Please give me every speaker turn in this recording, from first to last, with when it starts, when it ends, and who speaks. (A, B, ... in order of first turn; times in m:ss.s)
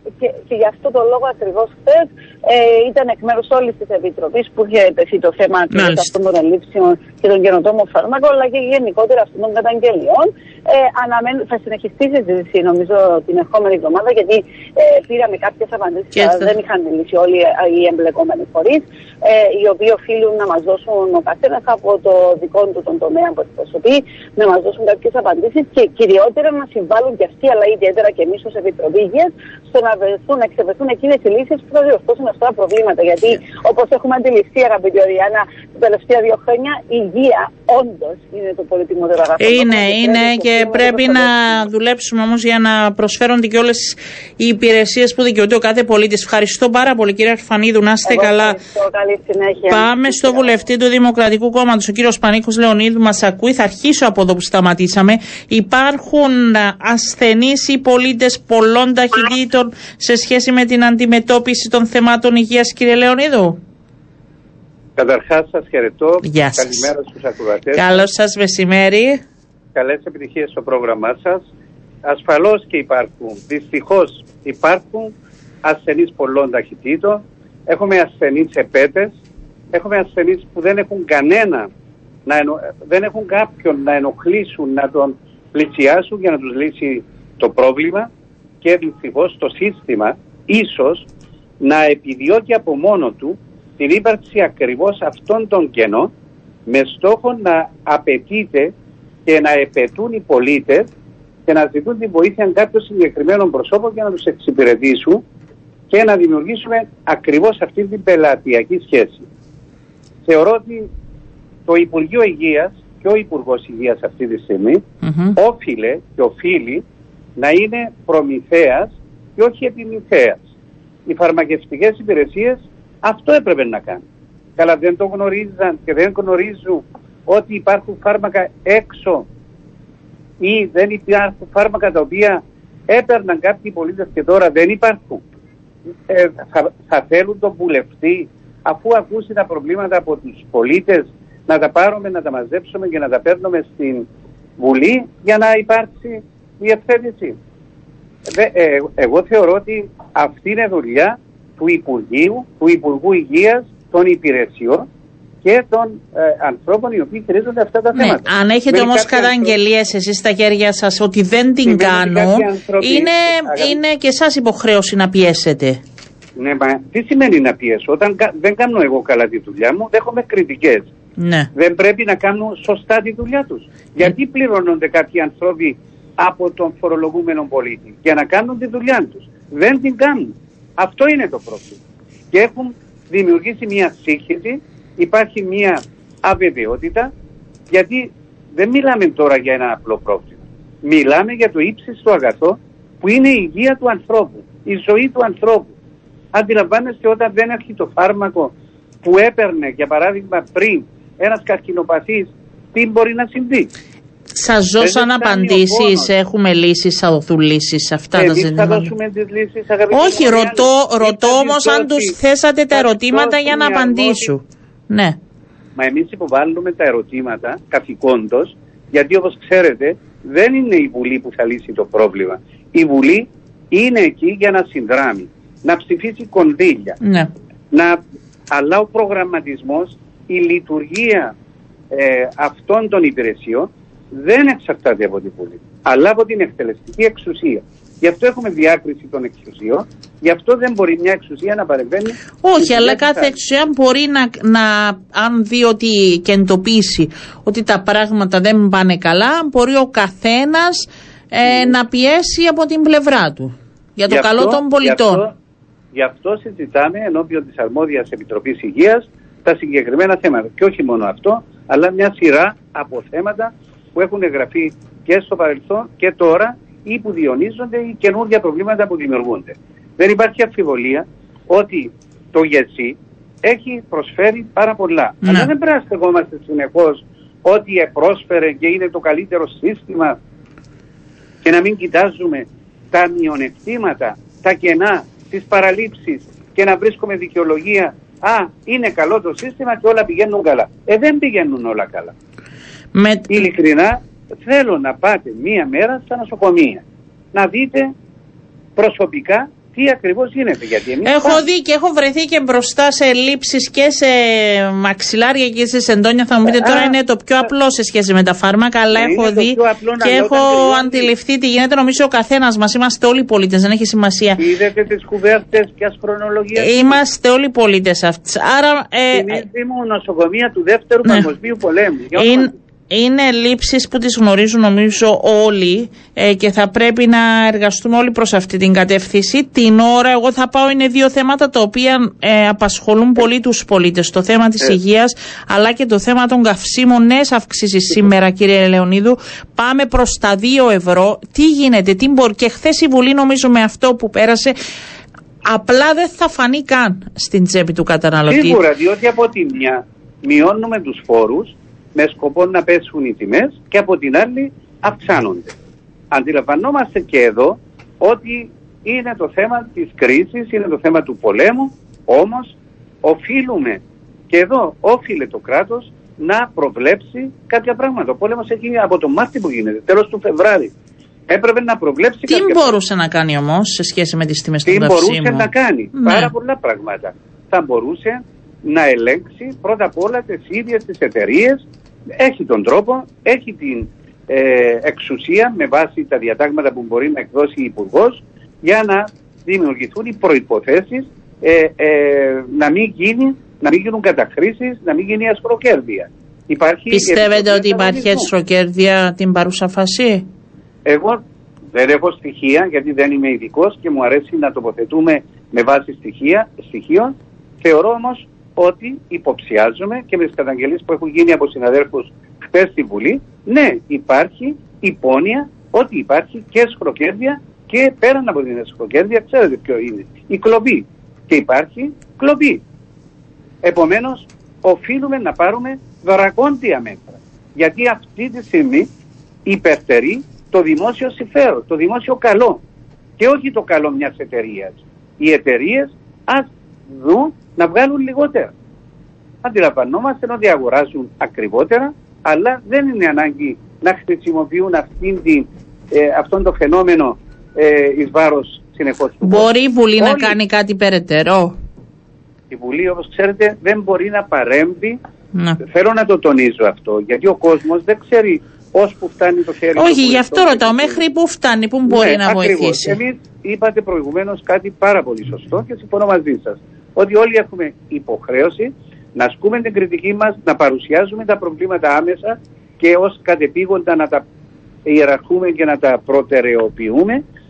0:00.2-0:41.6 A
0:05.7-0:06.1 B
0:16.2-0:16.5 B
0:39.4-0:48.6 B
0:48.0-0:50.6 A
0:49.7-1:03.6 B
1:05.0-1:08.1 C
1:06.2-1:06.9 B
1:07.7-1:09.2 B
1:09.8-1:11.4 C
1:12.0-1:15.1 C
1:15.6-1:19.1 C
1:19.7-1:21.7 C
1:22.3-1:28.1 C
1:28.6-1:31.1 C
1:31.6-1:36.1 C
1:36.7-1:38.7 C
1:39.3-1:40.9 C
1:41.5-1:45.2 C
1:45.9-1:49.3 C
1:50.3-1:50.9 C
1:51.7-1:54.8 C
1:55.0-1:55.4 B
1:55.4-1:56.8 C
1:57.4-2:00.4 C
2:01.1-2:04.0 C
2:04.6-2:09.3 C
2:10.4-2:15.2 C
2:16.1-2:24.1 C
2:24.6-2:27.4 C
2:28.3-2:34.9 C
2:35.4-2:39.5 C
2:38.0-2:45.8 B
2:41.7-2:43.8 C
2:46.4-2:50.9 C
2:51.2-2:51.5 B
2:51.6-3:01.8 C
3:02.3-3:07.1 C
3:07.7-3:15.7 C
3:16.3-3:23.7 C
3:24.3-3:28.9 B
3:24.8-3:26.1 C
3:28.2-3:32.2 C
3:29.9-3:35.2 B
3:32.7-3:34.3 C
3:35.8-3:47.0 C
3:47.0-3:47.3 B
3:47.7-3:48.0 C
3:48.5-3:51.3 C
3:51.9-4:03.4 C
4:02.4-4:15.2 B
4:14.1-4:15.3 C
4:15.9-4:40.2 C
4:35.2-4:35.5 B
4:41.4-4:52.1 C
4:52.9-4:53.5 B
4:53.3-4:57.9 C
4:58.8-5:01.4 C
5:01.0-5:14.4 B
5:06.4-5:07.0 C
5:08.9-5:11.1 C
5:14.4-5:17.0 C
5:16.6-5:19.4 B
5:19.1-5:22.5 C
5:22.2-5:44.6 B
5:45.4-5:48.6 B
5:48.3-5:55.5 C
5:56.1-6:10.7 C
6:11.3-6:12.7 C
6:12.3-6:16.3 B
6:14.7-6:21.6 C
6:22.2-6:38.3 C
6:36.9-6:40.3 B
6:40.9-7:02.6 C
7:03.6-7:08.9 C
7:09.5-7:12.6 C
7:13.2-7:18.5 C
7:19.4-7:30.4 C
7:29.2-7:31.6 B
7:32.5-7:35.0 C
7:35.3-7:35.6 B
7:35.6-7:41.0 C
7:39.8-7:43.0 B
7:41.9-7:54.2 C
7:54.9-7:57.2 C